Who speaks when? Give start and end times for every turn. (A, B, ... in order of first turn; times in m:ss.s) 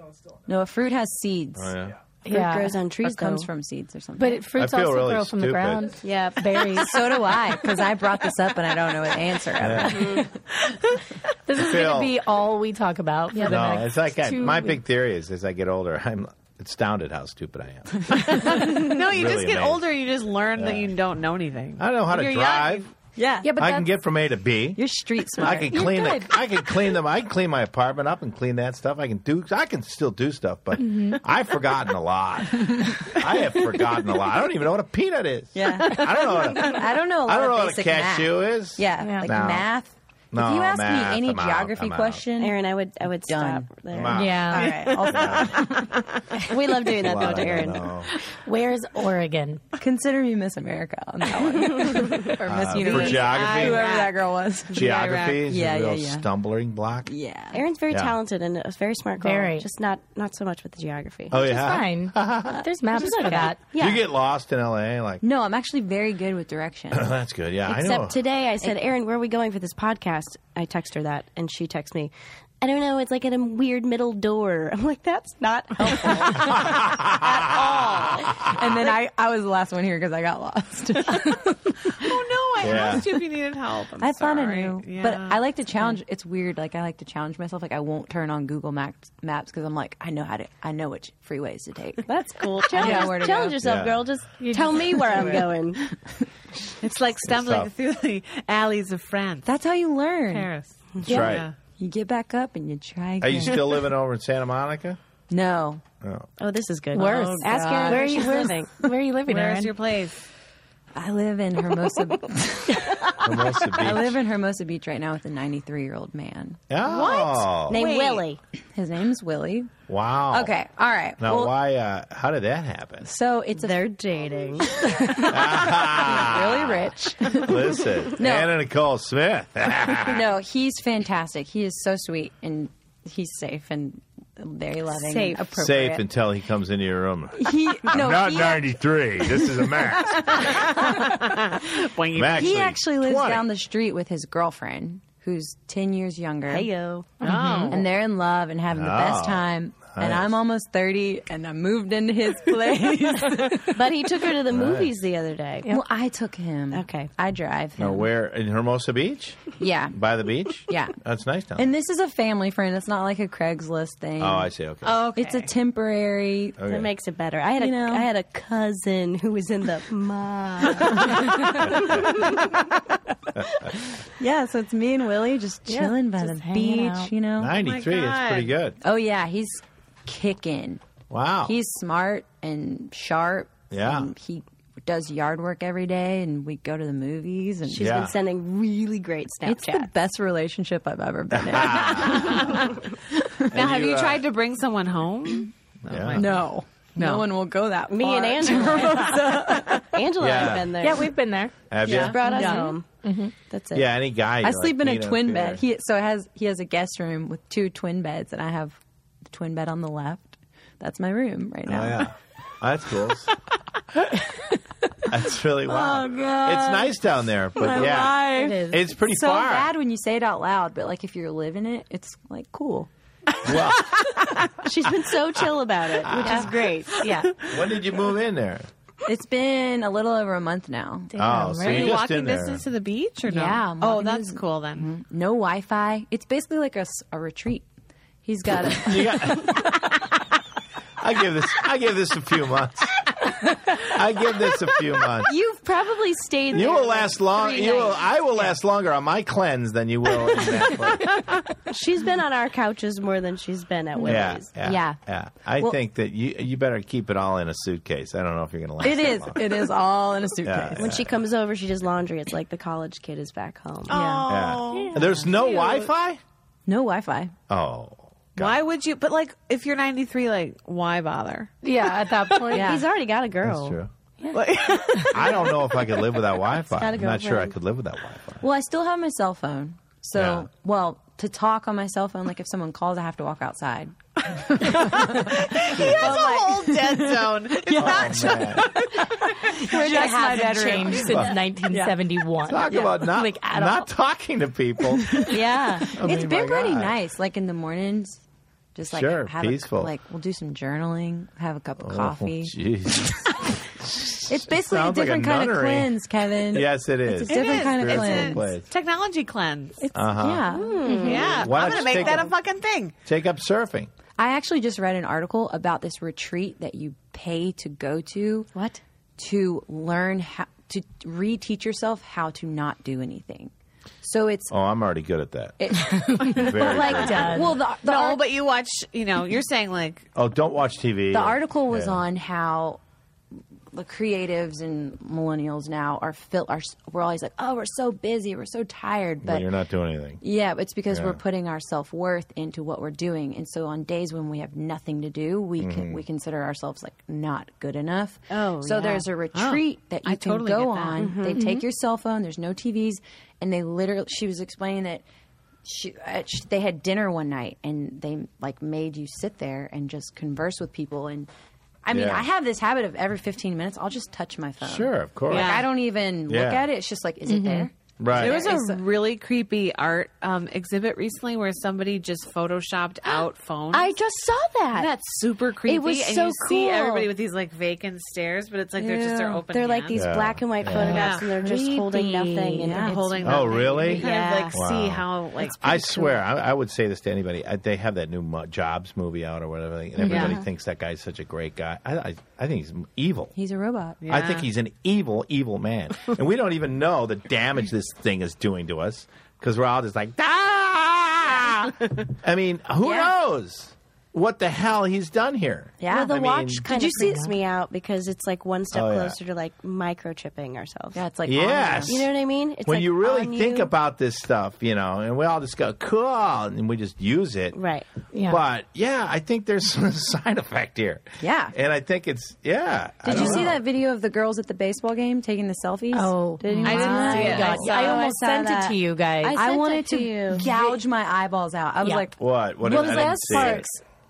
0:00.5-0:04.4 A
0:01.6-0:02.0 B
0:02.3-0:02.8 C
0:02.3-0:03.5 D
0:04.2-0:07.5 C
0:04.5-0:05.9 B
0:06.0-0:06.8 D
0:06.7-0:10.3 A
0:09.6-0:10.2 B
0:09.9-0:10.3 D
0:11.4-0:14.8 C
0:11.5-0:12.2 B
0:13.4-0:19.8 B
0:18.1-0:22.9 E
0:20.6-0:20.9 B
0:21.8-0:22.9 B
0:23.2-0:23.6 A
0:23.4-0:23.9 C
0:23.6-0:24.8 B
0:24.7-0:26.0 A
0:25.4-0:39.7 B
0:25.7-0:26.4 C
0:30.8-0:31.2 C
0:35.5-0:42.6 A
0:39.0-0:39.3 C
0:40.3-0:42.2 B
0:42.4-0:44.9 D
0:43.2-0:45.9 A
0:43.9-0:45.6 B
0:44.1-0:44.9 C
0:45.2-0:46.2 E
0:46.4-0:47.9 D
0:46.9-0:48.1 B
0:48.3-0:49.6 C
0:49.8-0:56.3 A
0:51.3-0:52.3 D
0:52.4-0:53.9 B
0:52.7-0:55.4 E
0:54.7-0:57.1 B
0:57.0-0:57.6 A
0:57.5-1:01.5 D
0:57.9-0:58.2 B
0:59.2-0:59.6 C
1:01.3-1:02.6 B
1:01.4-1:03.7 C
1:02.9-1:04.0 D
1:03.7-1:05.2 B
1:05.2-1:07.1 A
1:06.9-1:08.2 B
1:07.6-1:18.9 D
1:16.4-1:17.4 B
1:17.4-1:18.3 E
1:18.5-1:23.2 A
1:22.0-1:25.4 E
1:22.6-1:23.0 B
1:24.0-1:33.8 A
1:32.0-1:35.8 D
1:32.8-1:33.1 C
1:33.6-1:34.0 B
1:34.4-1:35.5 C
1:36.8-1:39.5 E
1:37.2-1:37.7 B
1:39.4-1:40.5 A
1:40.3-1:41.5 E
1:41.0-1:41.5 B
1:41.1-1:41.3 C
1:41.8-1:43.8 A
1:43.2-1:45.0 B
1:45.3-1:45.8 A
1:46.0-1:46.3 B
1:46.4-1:48.9 D
1:46.9-1:49.7 C
1:47.0-1:48.4 A
1:49.2-1:50.2 E
1:50.9-1:56.6 A
1:53.2-1:54.2 B
1:56.7-1:57.8 B
1:56.8-1:58.2 E
1:56.9-1:58.4 D
1:58.7-1:59.7 A
1:59.9-2:00.5 B
2:00.3-2:01.5 A
2:01.2-2:03.1 B
2:03.0-2:03.9 A
2:03.6-2:05.3 D
2:04.8-2:08.5 A
2:05.2-2:10.2 B
2:10.0-2:16.0 A
2:15.1-2:15.4 E
2:15.6-2:20.5 B
2:17.4-2:18.8 A
2:19.8-2:21.4 A
2:20.2-2:22.6 E
2:22.1-2:23.4 B
2:22.2-2:26.7 A
2:26.5-2:27.2 D
2:27.2-2:27.8 C
2:27.2-2:27.8 E
2:27.7-2:33.8 A
2:28.7-2:30.3 B
2:33.7-2:35.7 D
2:34.5-2:34.9 B
2:35.7-2:38.1 A
2:36.7-2:37.1 D
2:37.8-2:41.7 B
2:39.6-2:40.0 A
2:40.7-2:41.0 A
2:41.6-2:44.5 A
2:44.2-2:45.1 B
2:44.8-2:45.5 E
2:45.1-2:46.6 A
2:46.6-2:46.9 B
2:46.6-2:52.7 D
2:47.6-2:48.1 A
2:53.4-2:53.6 B
2:54.2-2:57.6 A
2:55.7-2:57.1 C
2:57.4-2:58.8 B
2:57.5-2:58.5 E
2:58.8-3:00.8 A
3:01.1-3:01.5 B
3:01.4-3:08.0 A
3:03.7-3:04.1 B
3:07.7-3:09.9 D
3:07.7-3:08.1 B
3:09.4-3:13.5 A
3:11.3-3:12.5 B
3:12.3-3:12.7 E
3:13.5-3:17.2 E
3:13.5-3:14.2 B
3:15.8-3:16.3 B
3:16.1-3:20.0 A
3:17.9-3:21.1 D
3:20.2-3:20.8 B
3:20.8-3:21.5 C
3:21.7-3:22.2 B
3:21.8-3:23.0 D
3:21.9-3:22.8 A
3:22.2-3:23.3 C
3:23.5-3:23.8 D
3:23.7-3:25.6 B
3:24.4-3:32.1 A
3:31.7-3:33.3 B
3:35.1-3:39.7 B
3:35.6-3:37.0 A
3:37.6-3:42.9 A
3:37.9-3:38.9 C
3:43.4-3:44.0 B
3:44.6-3:47.2 D
3:46.0-3:46.4 B
3:46.3-3:46.5 A
3:47.0-3:47.3 C
3:47.0-3:47.6 E
3:47.5-3:48.7 B
3:49.0-3:51.1 A
3:51.1-3:52.0 C
3:51.2-3:52.6 B
3:51.6-3:54.9 E
3:53.3-3:57.6 A
3:58.2-3:59.6 A
3:58.6-3:59.8 B
4:01.0-4:03.2 B
4:03.7-4:05.3 B
4:05.2-4:08.0 D
4:06.5-4:11.3 B
4:11.1-4:11.4 E
4:11.7-4:14.5 D
4:14.0-4:15.0 A
4:14.0-4:19.7 B
4:18.8-4:20.9 A
4:20.4-4:21.2 B
4:20.8-4:25.3 D
4:23.9-4:25.0 E
4:24.3-4:26.2 B
4:26.7-4:27.3 A
4:27.5-4:28.6 B
4:28.4-4:32.6 E
4:31.6-4:32.9 C
4:32.5-4:33.8 D
4:33.4-4:33.9 B
4:34.3-4:36.0 E
4:35.1-4:38.4 B
4:36.7-4:37.5 D
4:38.4-4:52.0 A
4:40.1-4:40.5 B
4:44.6-4:49.1 E
4:45.8-4:46.1 B
4:47.8-4:48.7 B
4:49.5-4:53.9 C
4:51.1-4:51.3 B
4:52.4-4:55.4 B
4:52.6-4:53.0 A
4:55.0-4:58.2 A
4:55.2-4:55.9 D
4:55.9-4:56.9 B
4:58.7-5:03.5 A
4:58.9-4:59.9 B
5:01.8-5:08.7 B
5:04.2-5:08.5 A
5:07.3-5:09.8 E
5:09.8-5:11.5 A
5:09.9-5:10.5 B
5:10.5-5:12.0 D
5:10.9-5:12.9 E
5:11.4-5:12.3 B
5:13.0-5:13.9 B
5:14.2-5:18.5 A
5:18.5-5:18.8 D
5:19.2-5:24.5 A
5:24.5-5:27.4 B
5:25.6-5:28.2 A
5:26.2-5:27.6 C
5:27.8-5:30.1 E
5:30.1-5:32.0 B
5:31.1-5:32.8 A
5:33.7-5:39.5 A
5:39.2-5:40.2 B
5:40.2-5:55.0 A
5:40.9-5:41.2 B
5:45.6-5:46.0 B
5:48.3-5:49.1 D
5:49.3-5:51.2 E
5:51.0-5:51.4 D
5:51.3-5:51.6 C
5:55.6-6:01.3 A
6:01.8-6:08.8 A
6:01.9-6:02.3 B
6:04.6-6:05.5 B
6:05.3-6:05.7 E
6:06.3-6:06.6 B
6:07.2-6:07.7 C
6:08.0-6:08.4 B
6:08.1-6:14.0 E
6:13.0-6:14.9 D
6:14.7-6:20.0 E
6:15.6-6:17.1 D
6:18.8-6:19.4 A
6:19.5-6:24.6 D
6:19.9-6:21.0 B
6:20.7-6:22.7 C
6:20.7-6:23.4 A
6:20.7-6:21.4 E
6:22.7-6:26.2 E
6:23.2-6:33.3 B
6:30.0-6:30.3 A
6:30.1-6:30.3 E
6:30.1-6:30.4 D
6:33.3-6:34.0 A
6:34.0-6:34.5 E
6:34.0-6:46.7 B
6:42.8-6:43.1 A
6:45.8-6:47.3 A
6:45.9-6:51.0 D
6:46.7-6:47.3 C
6:48.7-6:49.2 B
6:50.9-6:52.0 A
6:51.2-6:52.1 B
6:51.9-6:53.7 D
6:52.6-6:57.6 B
6:57.5-6:57.9 D
6:58.1-6:58.4 C
6:58.2-7:03.6 B
7:01.2-7:01.5 A
7:03.0-7:08.0 A
7:05.9-7:09.4 C
7:06.6-7:07.6 E
7:07.1-7:10.5 D
7:09.3-7:12.1 A
7:10.4-7:10.8 C
7:11.8-7:13.8 C
7:12.2-7:13.6 B